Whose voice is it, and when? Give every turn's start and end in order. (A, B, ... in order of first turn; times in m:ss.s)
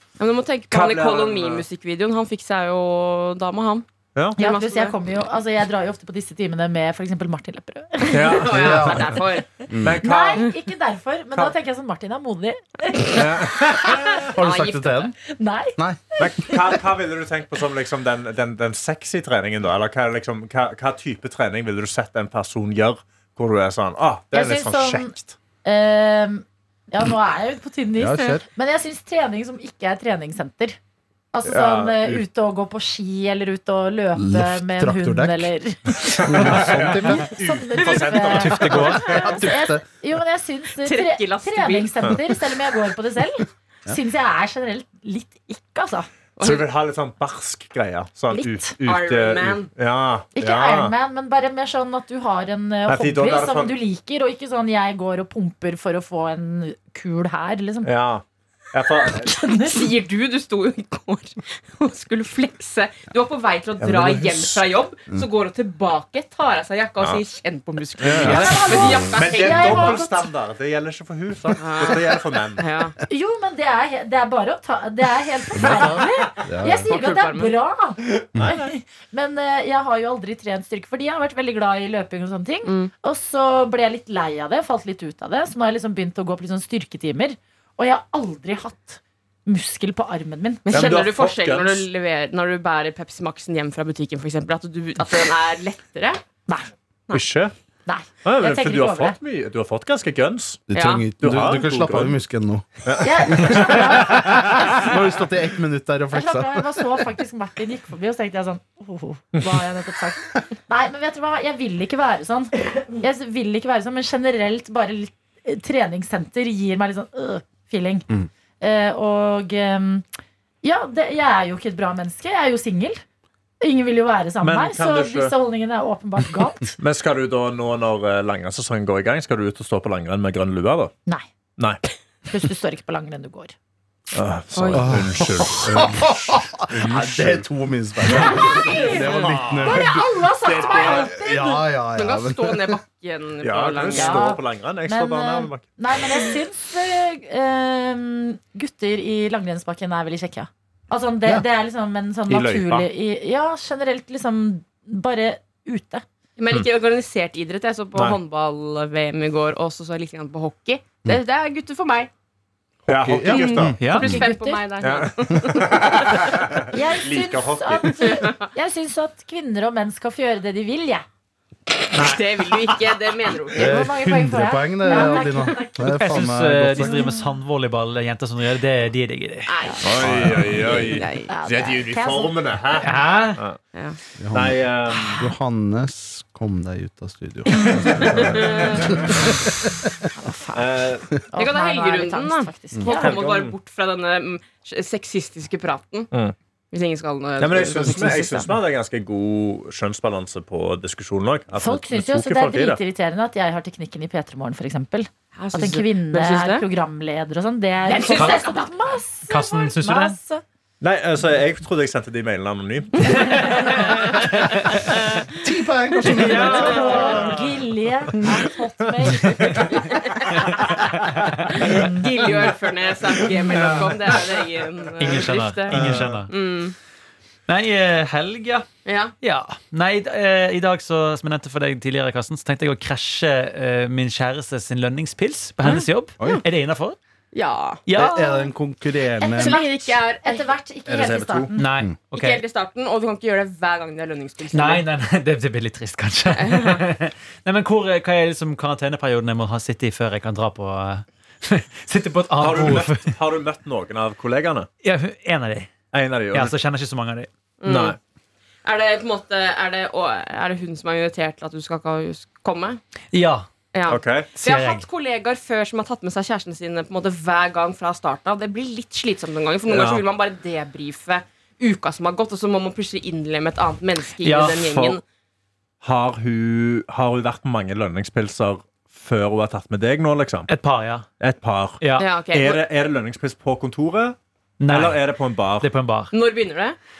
0:00.2-0:04.9 A
0:00.7-0:01.6 B
0:04.4-0:08.5 C
0:08.1-0:09.1 B
0:08.2-0:09.5 A
0:08.5-0:10.0 D
0:09.8-0:10.5 B
0:10.0-0:14.0 C
0:13.0-0:14.3 B
0:14.3-0:15.1 A
0:14.3-0:15.1 D
0:15.2-0:16.7 C
0:15.8-0:16.1 D
0:16.2-0:25.4 B
0:24.3-0:30.8 C
0:28.0-0:28.4 D
0:31.3-0:46.1 C
0:31.4-0:32.2 B
0:34.2-0:35.5 D
0:36.2-0:39.4 B
0:36.2-0:37.4 D
0:38.3-0:39.1 E
0:38.7-0:39.8 D
0:40.8-0:42.2 A
0:46.4-0:46.7 A
0:46.4-0:50.9 B
0:48.3-0:48.7 C
0:48.8-0:49.7 A
0:50.4-0:57.9 C
0:52.9-0:53.8 B
0:57.8-0:59.4 B
0:59.0-0:59.9 C
0:59.7-1:10.0 A
1:03.8-1:04.6 B
1:08.0-1:12.7 B
1:08.2-1:09.2 D
1:08.2-1:10.3 C
1:11.6-1:13.0 A
1:13.1-1:31.0 C
1:15.5-1:16.9 D
1:16.9-1:17.6 A
1:22.6-1:22.9 A
1:30.7-1:36.2 A
1:30.7-1:31.9 B
1:37.1-1:37.5 B
1:37.9-1:39.2 C
1:38.2-1:40.6 B
1:40.7-1:42.7 D
1:40.7-1:41.1 A
1:41.2-1:42.2 B
1:42.8-1:44.8 B
1:43.0-1:44.9 C
1:43.2-1:47.0 D
1:46.1-1:58.1 C
1:58.6-2:00.1 C
2:00.6-2:03.0 C
2:03.6-2:06.8 C
2:04.4-2:05.3 B
2:06.8-2:10.9 B
2:12.3-2:13.5 C
2:14.1-2:17.5 B
2:14.5-2:14.9 A
2:14.7-2:22.8 D
2:18.1-2:21.6 C
2:18.2-2:18.5 B
2:19.0-2:19.6 A
2:20.4-2:21.2 B
2:22.0-2:24.3 A
2:23.4-2:25.6 B
2:23.9-2:36.0 C
2:32.3-2:32.9 B
2:36.4-2:42.1 A
2:42.9-2:43.8 B
2:42.9-2:44.1 D
2:43.2-2:46.3 A
2:43.8-2:44.2 E
2:43.9-2:44.6 C
2:44.8-2:48.3 B
2:46.7-2:51.0 C
2:48.0-2:48.4 A
2:51.9-2:53.8 A
2:53.6-2:57.0 D
2:53.6-2:56.2 C
2:54.9-2:55.4 A
2:55.9-2:59.5 E
2:56.8-2:57.3 C
2:59.5-3:01.3 A
2:59.8-3:03.6 B
3:00.0-3:01.0 D
3:01.3-3:02.4 C
3:02.8-3:03.4 E
3:04.2-3:09.9 D
3:04.3-3:05.3 B
3:07.5-3:08.1 C
3:07.9-3:09.2 B
3:08.0-3:08.9 A
3:10.2-3:13.2 C
3:10.5-3:11.1 B
3:11.4-3:16.1 A
3:12.9-3:13.6 B
3:16.7-3:18.6 A
3:17.4-3:22.8 B
3:21.6-3:30.4 C
3:25.4-3:26.6 A
3:27.9-3:28.5 A
3:28.1-3:28.5 E
3:29.3-3:30.2 E
3:30.8-3:33.9 B
3:33.0-3:34.8 E
3:34.9-3:35.2 A
3:35.4-3:37.4 D
3:36.0-3:37.4 E
3:36.3-3:40.8 C
3:36.4-3:37.1 A
3:39.2-3:39.7 E
3:39.8-3:40.5 A
3:40.5-3:41.7 E
3:41.5-3:42.1 C
3:41.5-3:45.8 A
3:43.5-3:44.4 B
3:45.0-3:46.3 E
3:45.7-3:46.2 B
3:46.3-3:46.8 A
3:47.5-3:48.7 E
3:48.8-3:49.1 A
3:49.2-3:57.0 E
3:55.6-3:56.4 A
3:57.3-3:57.9 A
3:57.9-3:58.5 E
3:58.0-3:59.6 D
3:59.2-4:01.7 C
3:59.4-4:00.5 A
4:00.9-4:01.5 B
4:01.6-4:02.4 E
4:02.1-4:04.8 A
4:04.5-4:13.1 E
4:06.3-4:06.8 A
4:12.4-4:14.7 B
4:14.8-4:15.8 E
4:15.9-4:16.6 B
4:16.3-4:17.3 E
4:17.6-4:18.0 A
4:17.7-4:18.0 B
4:18.6-4:22.8 A
4:23.1-4:23.5 E
4:23.7-4:35.0 A
4:23.9-4:24.3 B
4:24.3-4:24.8 E
4:29.7-4:30.0 B
4:34.2-4:35.0 E
4:35.8-4:40.5 B
4:40.5-4:41.1 E
4:41.2-4:44.2 B
4:41.8-4:42.1 E
4:42.0-4:42.6 A
4:44.6-4:45.0 E
4:44.7-4:45.7 B
4:45.6-4:46.1 E
4:46.1-4:46.8 A